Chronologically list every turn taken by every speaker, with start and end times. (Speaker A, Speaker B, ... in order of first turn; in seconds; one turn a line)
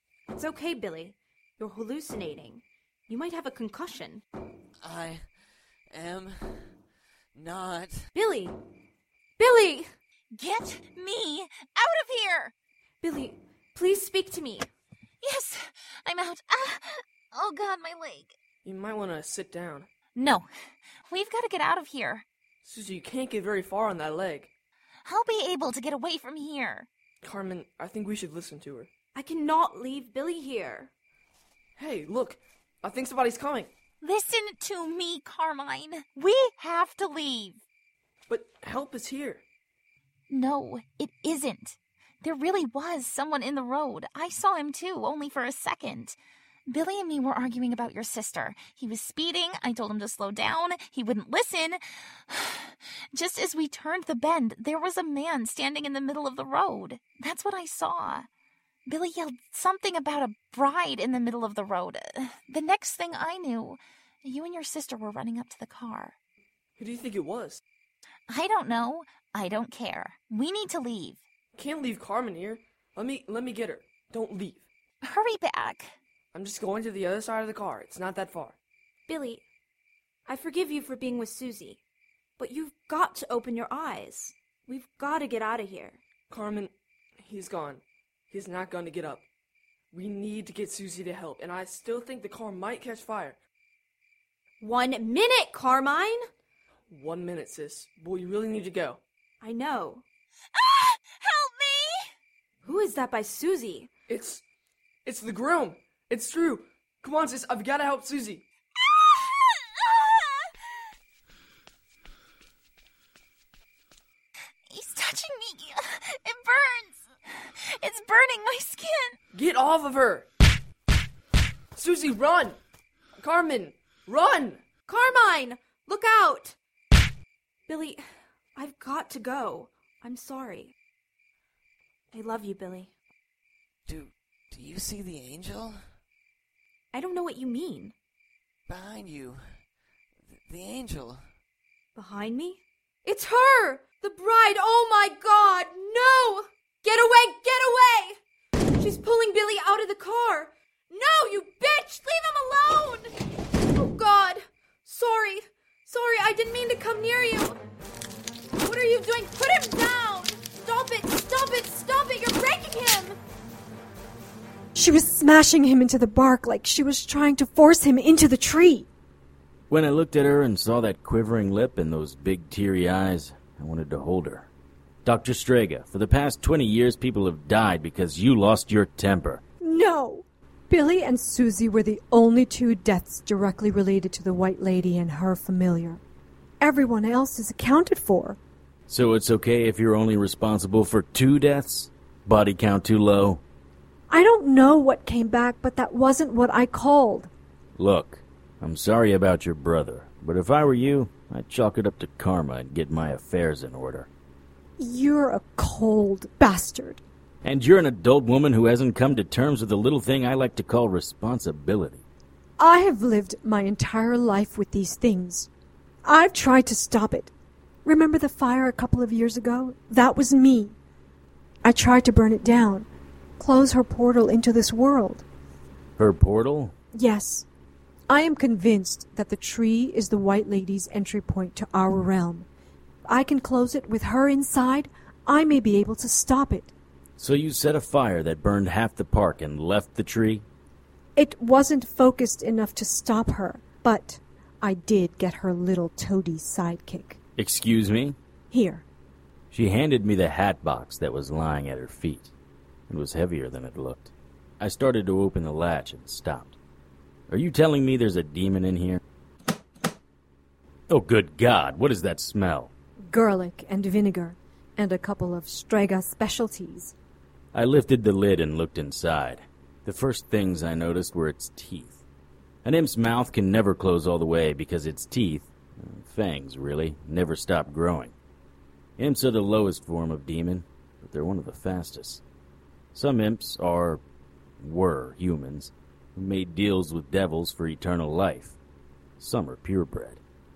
Speaker A: 0.3-4.2
Speaker B: 4.8-5.3
Speaker B: 5.9-6.7
Speaker B: 7.3-8.1
Speaker A: 8.1-8.6
Speaker A: 9.4-9.9
Speaker C: 10.4-12.5
Speaker A: 13.0-14.7
Speaker C: 15.2-18.4
Speaker D: 18.6-19.9
Speaker C: 20.1-20.5
Speaker C: 21.1-22.2
Speaker D: 22.6-24.5
Speaker C: 25.1-26.9
Speaker D: 27.2-28.9
Speaker A: 29.1-30.9
Speaker D: 31.8-33.7
Speaker C: 34.0-37.6
Speaker D: 38.3-39.4
Speaker C: 40.3-46.2
Speaker C: 46.7-58.3
Speaker C: 58.9-66.2
Speaker D: 66.8-67.6
Speaker C: 68.3-71.2
Speaker D: 71.6-74.7
Speaker C: 75.0-75.9
Speaker D: 76.3-78.6
Speaker A: 79.1-79.4
Speaker A: 80.3-81.8
Speaker A: 82.4-86.0
Speaker D: 86.3-89.2
Speaker D: 89.9-93.4
Speaker A: 94.6-96.2
Speaker D: 96.9-99.0
Speaker A: 99.4-100.0
Speaker C: 100.5-102.1
Speaker A: 102.6-103.9
Speaker D: 104.1-104.4
Speaker D: 105.0-108.4
Speaker C: 108.9-110.5
Speaker C: 114.7-119.2
Speaker D: 119.3-120.3
Speaker D: 121.7-122.6
Speaker D: 123.2-124.6
Speaker A: 124.9-126.6
Speaker A: 127.7-128.0
Speaker A: 128.6-130.8
Speaker A: 132.1-132.9
Speaker B: 133.9-135.8
Speaker A: 136.9-137.9
Speaker B: 138.7-139.4
Speaker B: 140.3-141.2
Speaker A: 142.0-148.2
Speaker A: 148.8-153.1
Speaker A: 153.7-157.6
Speaker A: 158.6-163.2
Speaker E: 164.8-168.9
Speaker F: 169.7-174.5
Speaker F: 175.1-179.4
Speaker E: 179.6-186.0
Speaker E: 186.6-188.4
Speaker F: 188.9-193.4
Speaker E: 194.1-197.3
Speaker F: 197.8-204.1
Speaker E: 204.8-207.0
Speaker F: 207.4-212.0
Speaker E: 212.6-215.5
Speaker E: 216.0-217.3
Speaker E: 217.8-220.8
Speaker E: 221.6-222.9
Speaker E: 223.4-225.2
Speaker F: 226.0-226.8
Speaker E: 226.9-227.5
Speaker E: 228.1-232.5
Speaker E: 233.1-236.7
Speaker F: 237.2-240.4
Speaker E: 241.2-247.2
Speaker F: 247.4-248.2
Speaker E: 248.5-248.8
Speaker F: 249.5-252.3
Speaker F: 252.9-256.6
Speaker F: 257.3-259.0
Speaker F: 260.9-262.7
Speaker E: 263.1-266.9
Speaker F: 267.5-272.0
Speaker F: 272.6-278.1
Speaker F: 279.0-282.2
Speaker F: 282.9-284.0
Speaker F: 284.6-288.6
Speaker F: 289.2-290.2